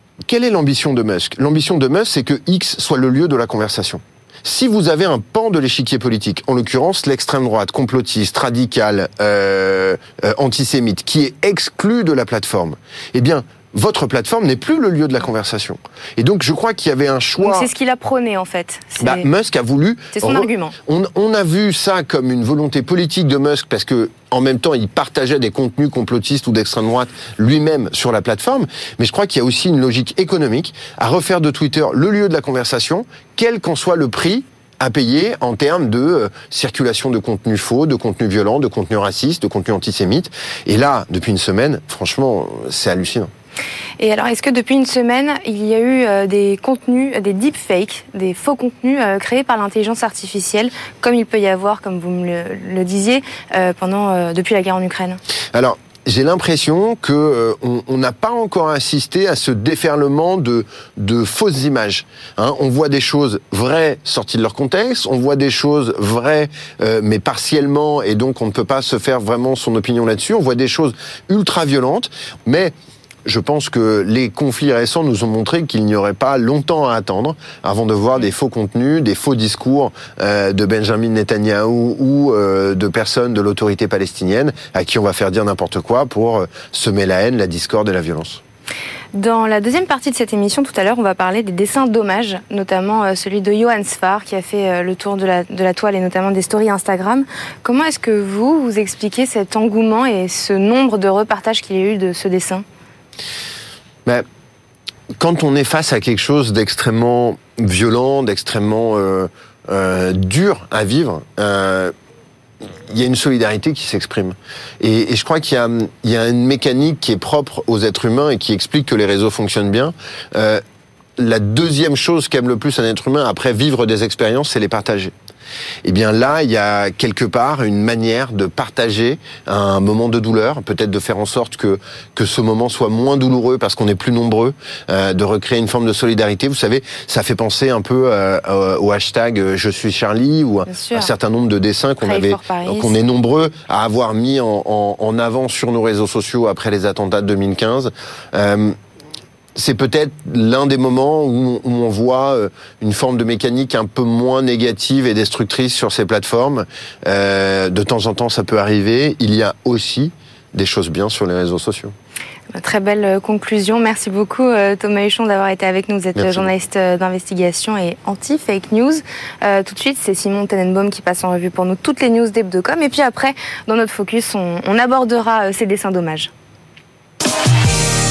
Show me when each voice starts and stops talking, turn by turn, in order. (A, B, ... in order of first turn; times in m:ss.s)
0:00.2-0:17.7 A
0:17.4-0:19.3 B
0:19.0-0:43.3 A
0:20.1-0:20.7 B
0:44.0-0:55.2 B
0:55.5-1:12.7 A
1:13.2-1:28.4 A
1:29.1-1:42.6 B
1:45.1-1:51.9 A
1:52.9-2:00.6 A
2:01.2-2:05.1 A
2:05.8-2:28.8 A
2:20.7-2:21.1 B
2:22.0-2:22.9 B
2:29.5-2:41.9 A
2:42.5-2:56.3 B
2:46.2-2:46.5 A